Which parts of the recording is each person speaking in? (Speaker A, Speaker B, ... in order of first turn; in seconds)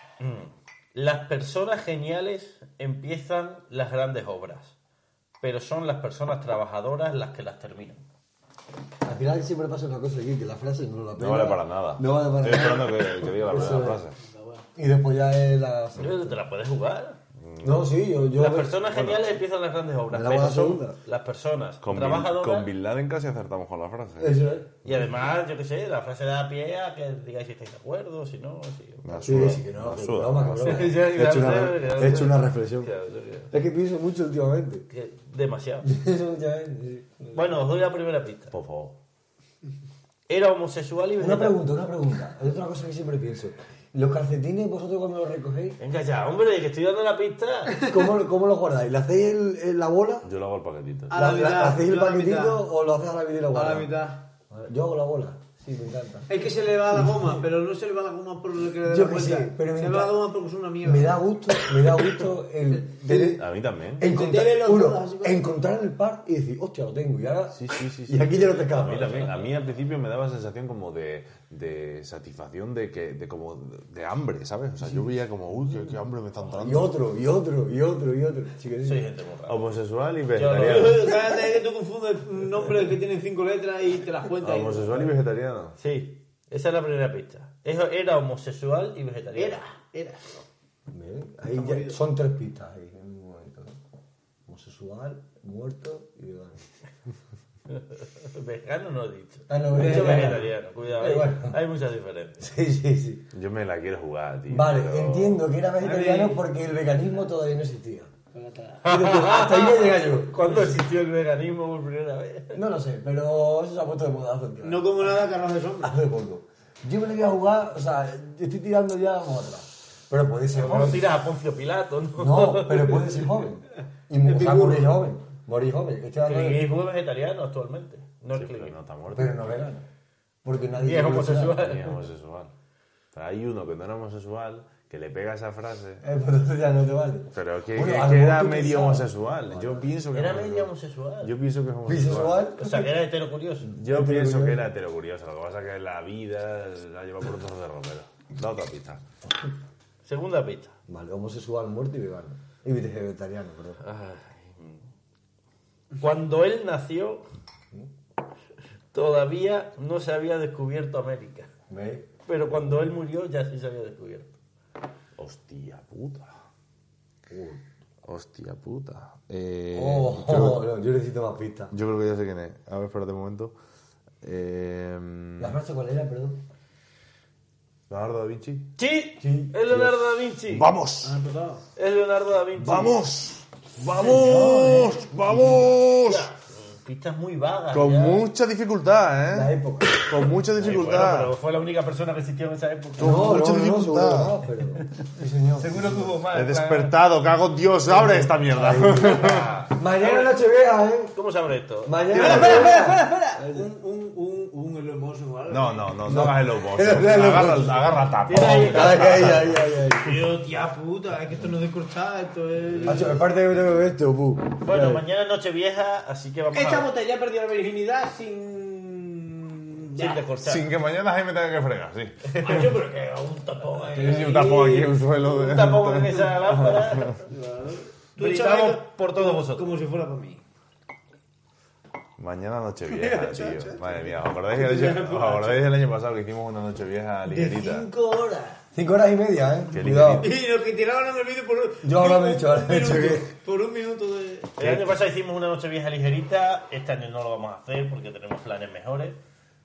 Speaker A: 0.2-4.8, 5.4-8.0, 16.0-17.2, 18.4-22.7, 24.9-29.6, 30.6-33.5, 34.9-35.9, 37.3-38.6, 40.3-41.6, 45.8-47.9, 68.7-69.5, 78.8-79.7, 80.3-81.2, 85.8-89.6, 97.7-102.5, 108.8-112.6, 120.5-123.3, 126.2-128.8, 130.8-132.0, 140.1-141.3, 142.6-143.7, 150.0-150.8, 153.8-154.8, 156.0-157.2, 158.9-161.5, 162.3-164.3, 178.8-180.7, 181.8-183.0, 184.3-184.6, 186.0-188.3, 190.6-193.3, 195.6-196.9, 198.6-200.4, 201.1-202.8, 208.3-210.3, 214.6-216.9, 219.9-220.7, 222.3-227.3, 228.2-229.7, 244.6-249.2
Speaker B: 9.0-14.0, 14.8-16.4, 17.6-18.9, 20.1-21.0, 24.2-24.7, 29.2-32.9, 33.5-34.9, 35.8-37.6, 41.2-45.8, 47.8-50.3, 51.1-54.0, 54.5-57.4, 58.8-60.2, 60.8-69.3, 76.6-79.1, 90.9-93.8, 94.5-96.6, 99.5-101.6, 102.4-103.3, 104.5-108.1, 108.8-110.7, 112.5-115.2, 115.8-121.1, 122.2-126.7, 129.1-129.8, 130.4-131.6, 136.0-139.9, 141.8-142.9, 143.8-144.7, 150.9-153.8, 161.7-162.1, 167.3-167.6, 169.7-171.7, 175.4-176.4, 179.2-179.9, 184.0-185.7, 189.3-190.1, 193.0-196.2, 197.9-201.2, 201.8-203.6, 206.0-210.3, 212.8-215.0, 238.7-240.3, 241.8-243.3
Speaker C: 11.2-14.2, 17.4-17.9, 18.9-19.2, 21.8-25.1, 29.0-31.0, 38.5-39.0, 50.2-51.2, 63.1-64.1, 67.5-76.9, 79.5-81.1, 84.4-85.8, 103.3-105.5, 128.3-129.5, 131.6-132.5, 133.1-136.0, 137.3-140.7, 141.2-142.4, 143.7-149.0, 165.2-166.3, 168.1-170.7, 171.7-173.6, 174.2-175.6, 177.9-178.7, 180.5-181.1, 182.6-186.3, 187.7-191.3, 193.0-194.4, 196.3-199.5, 205.5-209.5, 220.4-222.6, 223.9-227.2, 232.2-237.9, 239.7-240.3, 244.6-245.0
Speaker D: 14.2-14.6, 51.1-52.6, 53.5-54.2, 56.3-61.2, 62.7-63.3, 64.0-65.5, 80.6-85.2, 89.3-90.4, 91.5-92.0, 105.8-106.4, 108.3-108.8, 114.6-116.0, 124.2-125.0, 181.0-181.6, 184.0-184.9, 195.7-196.7, 202.1-205.9, 210.0-213.2, 216.5-220.2, 222.4-224.9, 227.3-230.4, 232.9-235.7, 237.3-238.6, 240.1-244.5